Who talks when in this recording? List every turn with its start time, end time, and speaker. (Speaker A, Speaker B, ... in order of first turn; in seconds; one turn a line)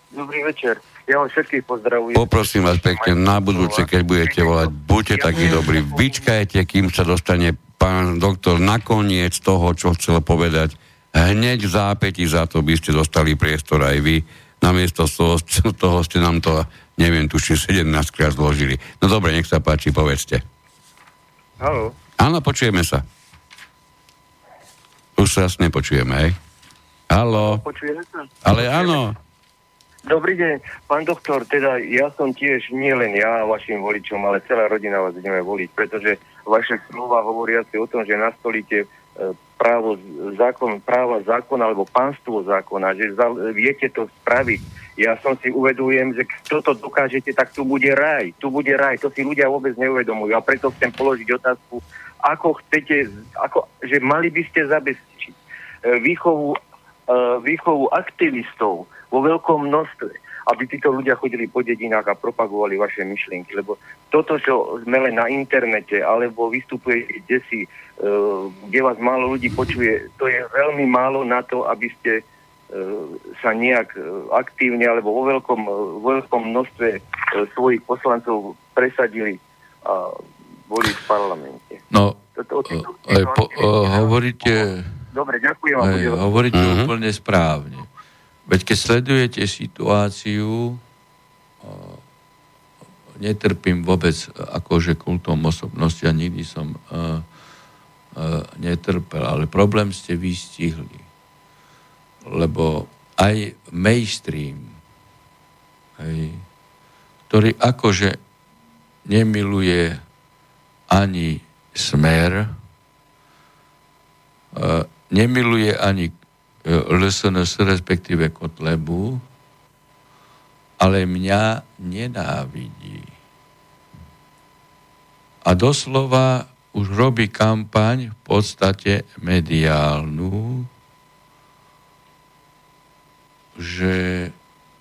Speaker A: 0.1-6.3
Speaker B: 2.1-20.4
Speaker A: 21.6-21.9
Speaker B: 22.2-23.0
Speaker B: 25.1-26.4
Speaker B: 27.1-27.6
Speaker A: 27.3-29.0
Speaker B: 28.4-29.2
Speaker A: 30.1-81.8
Speaker C: 81.9-82.2
Speaker A: 82.3-86.3
Speaker C: 82.7-84.9
Speaker C: 85.8-87.9
Speaker B: 86.5-86.9
Speaker C: 88.5-90.8
Speaker C: 91.6-92.0
Speaker C: 93.2-97.2
Speaker C: 98.2-101.0
Speaker C: 102.2-104.7
Speaker C: 106.0-106.4
Speaker C: 107.3-108.2
Speaker C: 109.0-110.0
Speaker C: 110.9-112.5
Speaker C: 114.5-119.2
Speaker C: 120.8-123.1
Speaker C: 125.4-130.7
Speaker C: 133.6-134.3